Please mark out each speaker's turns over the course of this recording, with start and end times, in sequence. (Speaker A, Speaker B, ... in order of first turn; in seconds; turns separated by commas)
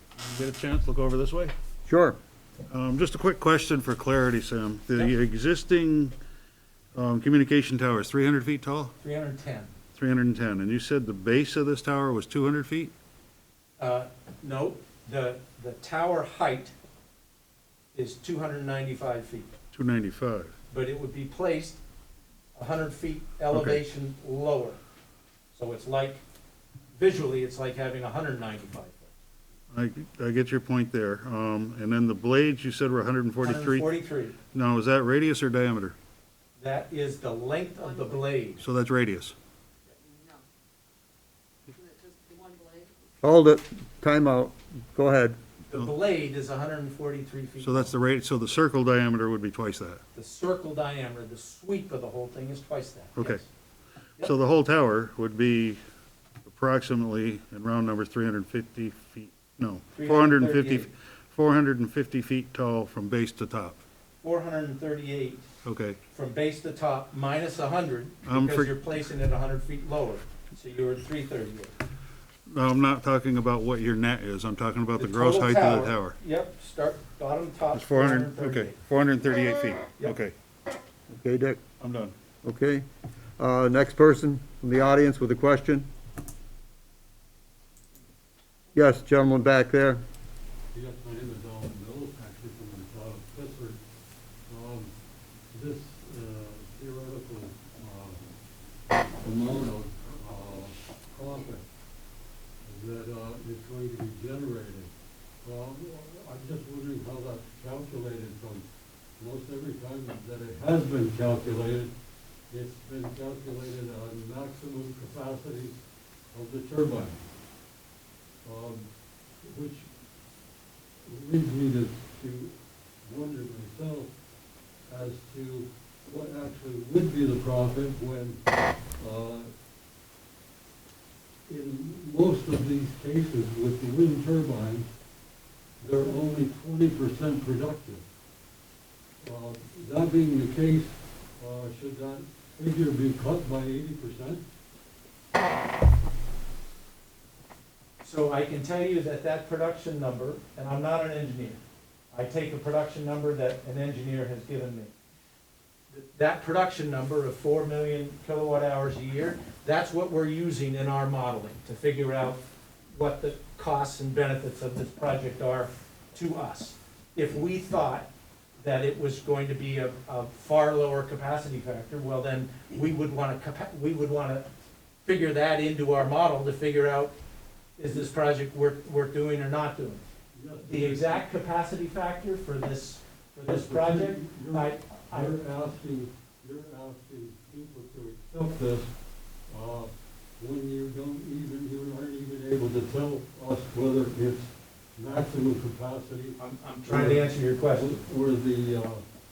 Speaker A: 0.2-1.5, Speaker B: 1.9-2.2, Speaker A: 2.7-6.2, Speaker A: 6.9-8.9, Speaker C: 9.0-9.7, Speaker A: 9.9-12.9, Speaker C: 13.8-16.7, Speaker C: 17.9-19.5, Speaker A: 19.7-20.5, Speaker C: 20.7-21.8, Speaker C: 22.5-24.8, Speaker A: 23.5-23.8, Speaker C: 25.5-26.2, Speaker C: 26.9-29.1, Speaker A: 29.7-33.9, Speaker C: 33.4-34.4, Speaker A: 34.5-35.9, Speaker C: 36.6-38.6, Speaker D: 37.8-38.2, Speaker A: 38.6-39.3, Speaker D: 39.9-40.4, Speaker D: 41.7-43.0, Speaker B: 43.2-45.4, Speaker C: 45.7-47.9, Speaker A: 47.6-50.0, Speaker C: 50.1-53.5, Speaker A: 53.1-53.4, Speaker A: 54.2-55.8, Speaker A: 56.4-63.8, Speaker C: 59.9-60.9, Speaker C: 64.2-65.5, Speaker A: 65.6-66.0, Speaker C: 66.1-71.7, Speaker A: 68.2-68.8, Speaker A: 72.5-76.2, Speaker C: 75.0-78.8, Speaker A: 77.7-80.3, Speaker B: 81.1-81.6, Speaker A: 81.8-82.1, Speaker B: 82.4-82.8, Speaker B: 83.4-85.9, Speaker B: 88.7-90.0, Speaker E: 90.7-93.8, Speaker E: 94.5-94.9, Speaker E: 95.5-98.3, Speaker E: 99.2-101.7, Speaker E: 102.6-104.9, Speaker E: 105.4-108.6, Speaker E: 109.2-111.9, Speaker E: 112.5-115.8, Speaker E: 116.3-117.2, Speaker E: 118.4-118.9, Speaker E: 119.4-119.9, Speaker E: 121.0-124.1, Speaker E: 124.9-128.4, Speaker E: 129.0-129.5, Speaker E: 131.5-134.9, Speaker E: 135.8-138.0, Speaker E: 139.2-144.4, Speaker C: 148.0-151.6, Speaker C: 152.1-154.9, Speaker C: 155.9-168.1, Speaker C: 168.6-174.5, Speaker C: 175.0-177.1, Speaker C: 177.8-180.0, Speaker E: 180.3-181.2, Speaker C: 180.6-185.4, Speaker E: 183.4-188.9, Speaker E: 189.5-199.0, Speaker C: 196.4-198.0